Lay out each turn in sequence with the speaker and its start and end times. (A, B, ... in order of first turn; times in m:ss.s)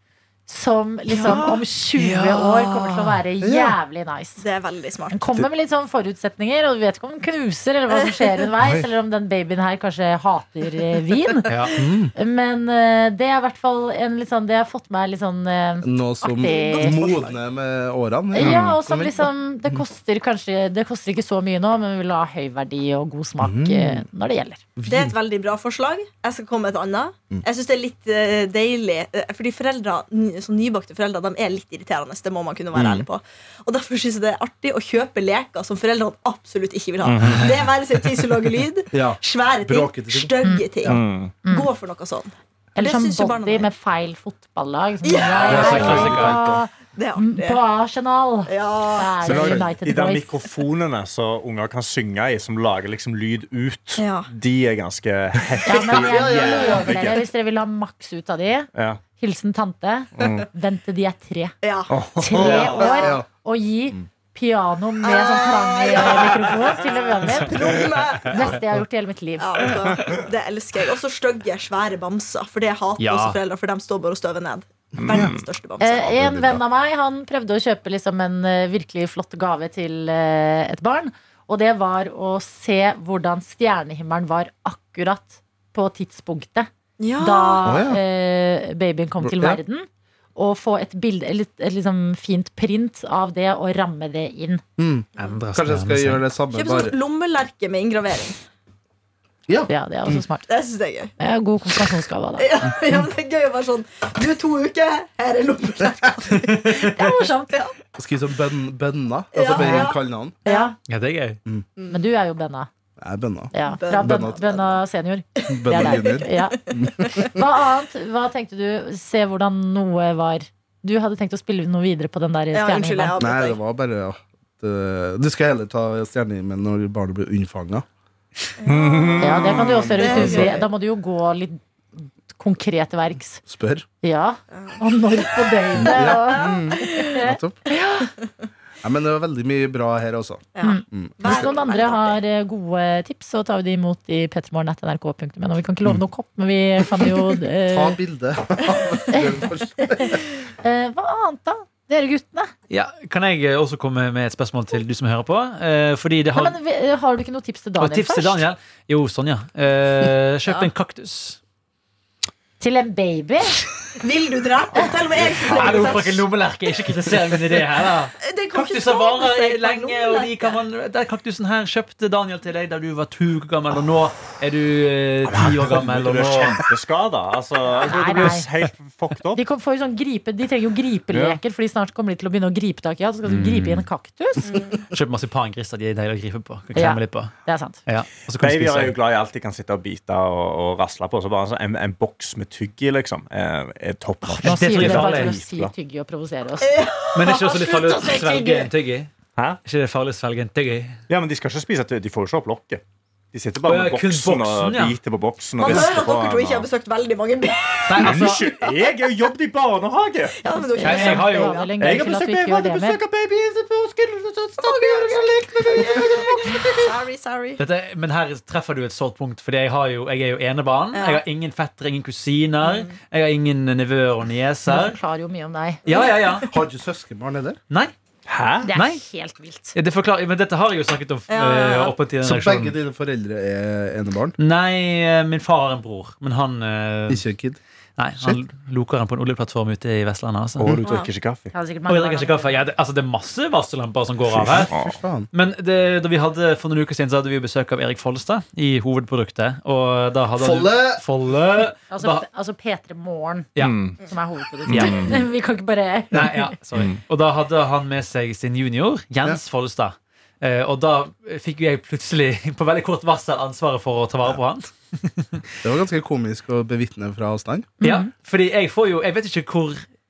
0:00.5-0:04.4 A
0:01.1-0:03.2 B
0:03.4-0:03.8 C
0:04.4-0:05.2 D
0:05.1-0:11.5 A
0:08.6-0:08.9 C
0:11.5-0:11.7 B
0:11.8-0:12.1 C
0:12.2-0:17.2 A
0:15.8-0:19.8 C
0:16.4-0:17.3 D
0:18.3-0:24.6 A
0:18.4-0:18.7 E
0:23.4-0:24.1 C
0:24.8-0:25.2 C
0:24.9-0:43.7 D
0:32.7-0:33.1 C
0:37.0-0:37.6 E
0:38.9-0:41.0 C
0:40.9-0:41.3 E
0:41.4-0:41.7 A
0:42.8-0:50.3 A
0:45.0-0:46.3 D
0:45.4-0:46.4 B
0:45.5-0:46.6 C
0:46.9-0:47.6 D
0:48.5-0:49.2 D
0:49.2-0:57.2 E
0:49.3-0:49.6 C
0:54.0-0:54.3 D
0:55.7-1:01.5 A
0:55.9-0:57.2 C
0:58.8-0:59.0 E
1:00.2-1:00.5 E
1:01.6-1:03.2 D
1:01.9-1:02.9 E
1:02.2-1:09.7 A
1:02.4-1:03.3 C
1:05.0-1:08.6 D
1:09.4-1:16.1 D
1:13.0-1:13.4 B
1:15.0-1:15.4 E
1:15.8-1:34.6 A
1:16.1-1:16.6 C
1:27.0-1:27.7 D
1:27.6-1:28.0 C
1:29.2-1:29.6 C
1:34.8-1:37.0 C
1:35.2-1:36.2 B
1:36.5-1:38.4 D
1:39.5-1:40.2 C
1:39.7-1:40.5 A
1:40.5-1:41.1 D
1:41.2-1:42.5 A
1:42.4-1:46.9 D
1:46.3-1:46.7 B
1:46.7-1:47.7 A
1:48.0-1:50.4 C
1:49.3-1:50.8 D
1:49.5-1:49.9 A
1:50.5-1:50.7 A
1:50.9-1:51.4 B
1:51.9-1:52.7 A
1:53.0-1:54.5 C
1:53.5-1:56.6 A
1:53.6-1:54.8 D
1:55.4-1:56.6 D
1:55.5-1:57.3 C
1:57.2-2:03.2 A
2:02.5-2:03.6 D
2:03.2-2:07.8 C
2:08.6-2:10.6 D
2:08.7-2:10.0 E
2:09.2-2:13.4 A
2:09.5-2:10.6 C
2:13.5-2:13.9 C
2:14.0-2:18.1 A
2:14.5-2:14.8 D
2:15.7-2:17.6 C
2:15.8-2:17.2 D
2:18.8-2:21.5 C
2:20.6-2:22.2 D
2:20.6-2:28.0 A
2:27.7-2:30.2 C
2:29.1-2:32.5 A
2:32.7-2:36.6 B
2:36.3-2:38.5 A
2:37.8-2:41.4 B
2:42.6-2:43.6 A
2:44.0-2:46.3 D
2:45.2-2:46.0 E
2:45.4-2:56.6 B
2:48.2-2:50.6 D
2:55.3-2:59.4 E
2:57.8-2:58.5 A
2:59.4-3:04.6 A
3:01.1-3:01.4 E
3:03.3-3:03.9 B
3:04.5-3:04.8 D
3:04.8-3:07.3 B
3:06.7-3:07.8 A
3:07.9-3:09.0 B
3:08.4-3:15.7 E
3:14.4-3:16.8 A
3:14.4-3:15.4 B
3:16.6-3:18.7 D
3:17.2-3:19.1 B
3:19.6-3:21.0 B
3:21.1-3:22.8 E
3:23.3-3:26.7 E
3:23.7-3:25.0 B
3:25.6-3:28.4 D
3:27.9-3:28.5 B
3:28.0-3:30.4 E
3:30.4-3:31.7 D
3:30.7-3:33.0 A
3:30.8-3:31.7 B
3:31.8-3:36.9 E
3:34.6-3:37.6 D
3:37.6-3:45.0 B
3:40.9-3:41.2 D
3:42.6-3:43.0 D
3:44.7-3:45.8 A
3:45.8-3:46.5 B
3:45.9-3:46.5 D
3:46.5-3:47.6 C
3:48.3-3:48.7 E
3:48.7-3:49.8 A
3:48.7-3:49.0 B
3:49.7-3:52.8 B
3:51.3-3:52.0 D
3:52.2-3:54.4 C
3:54.4-3:57.2 B
3:57.1-3:57.6 C
3:58.0-4:00.8 B
4:00.6-4:01.5 E
4:01.5-4:02.6 A
4:01.9-4:04.7 B
4:04.3-4:05.0 E
4:04.7-4:05.3 C
4:05.3-4:12.2 B
4:10.4-4:11.0 C
4:11.9-4:13.5 A
4:13.6-4:13.9 B
4:13.6-4:14.0 E
4:14.0-4:16.6 A
4:14.7-4:15.2 E
4:14.7-4:15.2 B
4:16.1-4:25.4 B
4:16.8-4:17.0 E
4:25.6-4:27.7 C
4:27.8-4:29.8 B
4:27.8-4:28.1 A